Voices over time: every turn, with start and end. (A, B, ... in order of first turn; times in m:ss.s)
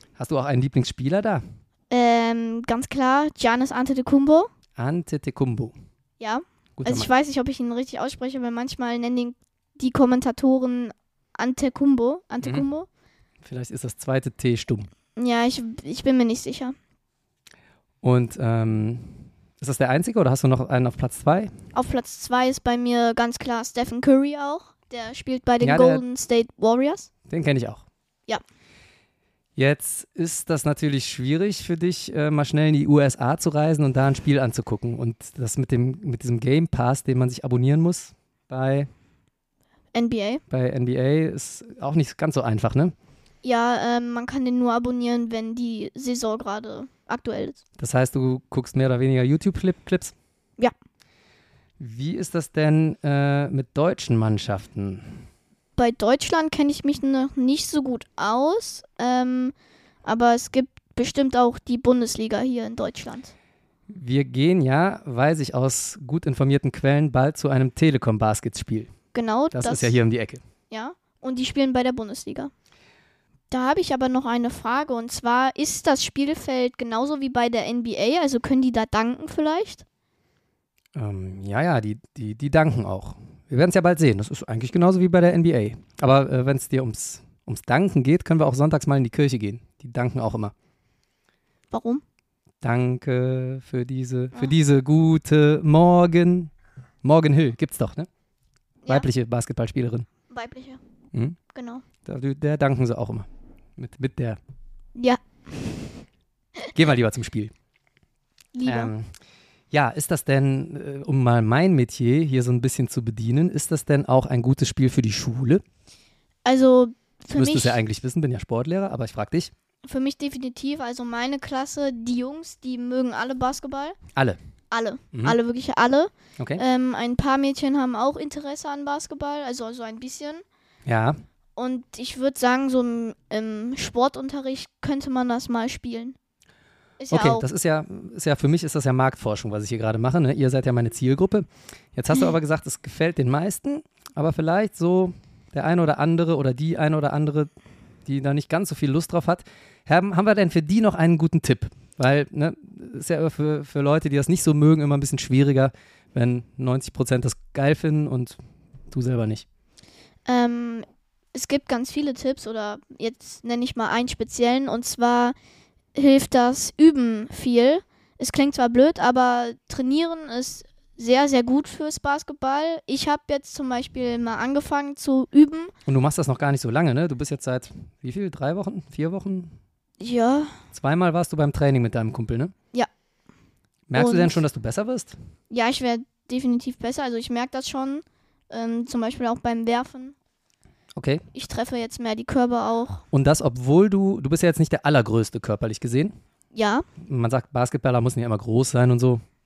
0:00.2-0:01.4 A
0:01.9-0:04.5 B
0:04.8-0:05.7 A
0:06.2-0:12.9 B
0:06.8-0:07.1 A
0:12.4-0:12.7 A
0:13.4-0:14.9 A
0:15.2-0:16.7 B
0:18.0-0:21.5 A
0:21.7-0:27.1 B
0:25.6-0:26.0 A
0:27.3-0:27.8 A
0:29.6-0:38.9 A
0:39.9-0:40.4 B
0:40.5-0:42.9 A
0:43.4-0:47.6 B
0:47.8-0:50.1 A
0:51.8-0:55.2 A
0:55.8-1:03.3 B
1:03.9-1:08.9 A
1:09.1-1:10.0 B
1:09.5-1:10.4 A
1:10.7-1:12.5 B
1:13.5-1:19.8 B
1:20.9-1:30.5 A
1:31.7-1:32.0 B
1:32.6-1:36.5 A
1:37.0-1:38.1 A
1:38.9-1:40.1 A
1:40.3-1:40.8 B
1:41.5-1:41.8 B
1:42.0-1:44.4 A
1:45.0-1:46.0 B
1:46.7-1:47.5 A
1:48.5-1:48.9 B
1:48.6-1:49.1 A
1:49.7-1:55.6 A
1:56.4-1:57.8 B
1:57.4-1:59.5 A
1:59.8-2:04.0 B
2:04.7-2:10.4 B
2:05.1-2:05.4 A
2:10.8-2:11.2 A
2:11.6-2:16.2 B
2:17.0-2:17.5 B
2:17.1-2:27.5 A
2:28.0-2:38.4 A
2:38.9-2:39.4 A
2:40.2-2:45.3 B
2:45.9-2:55.7 B
2:55.9-2:59.6 A
3:00.0-3:00.6 B
3:00.7-3:02.5 A
3:03.9-3:05.1 A
3:03.9-3:04.4 B
3:05.5-3:10.1 B
3:11.0-3:11.2 A
3:11.3-3:13.0 B
3:13.1-3:16.1 A
3:16.5-3:16.9 B
3:17.0-3:19.2 A